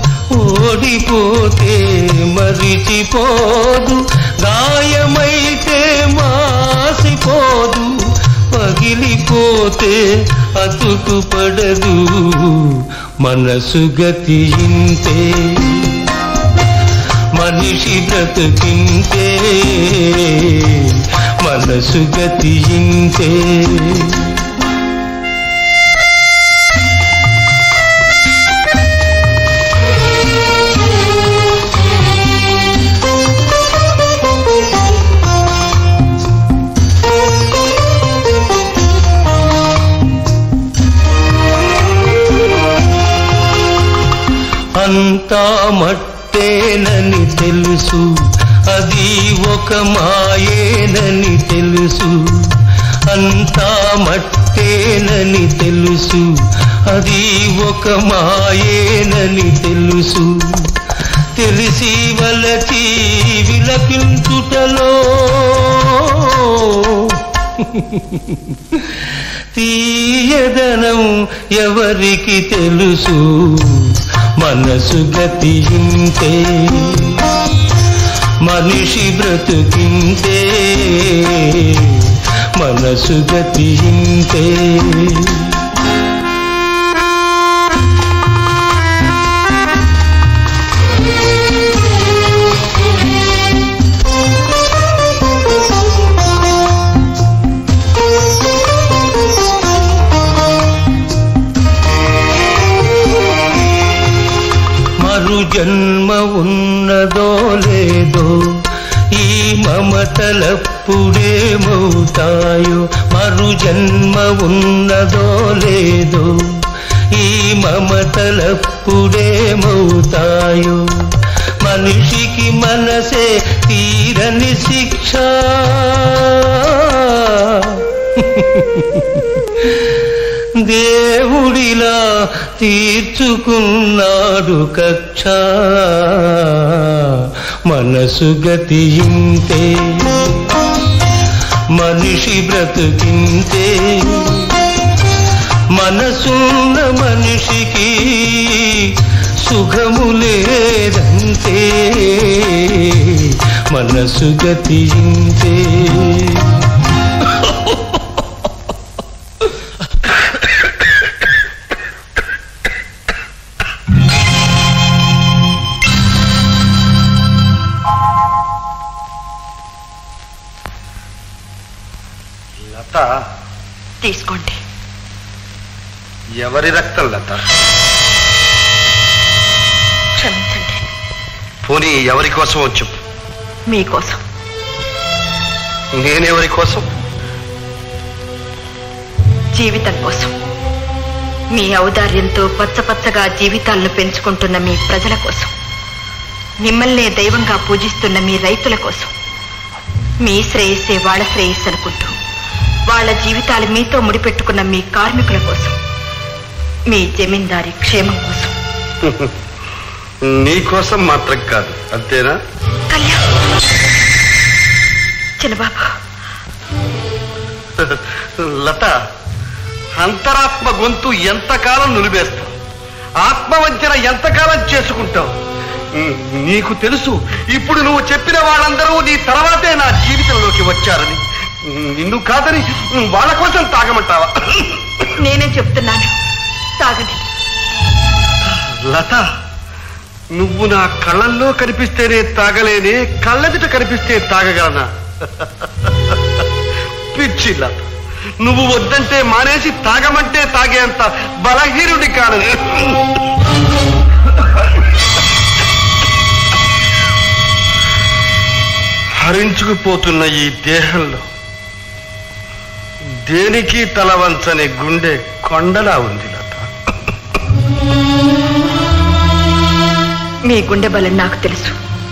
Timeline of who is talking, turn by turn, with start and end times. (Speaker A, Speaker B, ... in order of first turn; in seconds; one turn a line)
Speaker A: 0.3-7.9
Speaker A: 8.5-10.0
Speaker A: 10.6-16.0
Speaker A: 17.4-20.9
Speaker A: 21.4-24.3
Speaker A: 44.8-52.5
Speaker A: 53.1-56.3
Speaker A: 56.9-60.7
Speaker A: 61.4-77.2
Speaker A: 78.5-81.9
Speaker A: 82.6-85.5
Speaker A: 105.0-108.4
Speaker A: 109.1-116.6
Speaker A: 117.1-120.8
Speaker A: 121.6-129.8
Speaker A: 130.6-137.1
Speaker A: 137.7-140.2
Speaker A: 141.8-144.6
Speaker A: 145.7-148.8
Speaker A: 149.4-156.4
Speaker B: 172.6-173.1
Speaker C: 174.0-174.6
Speaker B: 176.4-177.4
Speaker C: 180.2-180.8
Speaker B: 181.7-183.0
Speaker C: 183.7-184.2
Speaker B: 186.0-186.8
Speaker C: 189.5-190.3
Speaker C: 191.5-195.5
Speaker C: 196.6-199.1
Speaker C: 200.2-202.1
Speaker C: 202.9-205.8
Speaker C: 206.9-208.5
Speaker B: 209.0-209.3
Speaker B: 210.3-212.4
Speaker C: 212.9-213.2
Speaker C: 215.4-215.9
Speaker B: 217.8-219.0
Speaker B: 220.0-222.5
Speaker B: 223.2-225.3
Speaker B: 226.0-235.1
Speaker C: 235.2-236.1
Speaker C: 236.8-237.2
Speaker B: 238.4-239.2
Speaker B: 240.4-246.2
Speaker B: 247.1-247.9
Speaker B: 248.4-253.1
Speaker B: 259.2-261.2
Speaker B: 263.2-266.7
Speaker C: 270.5-271.8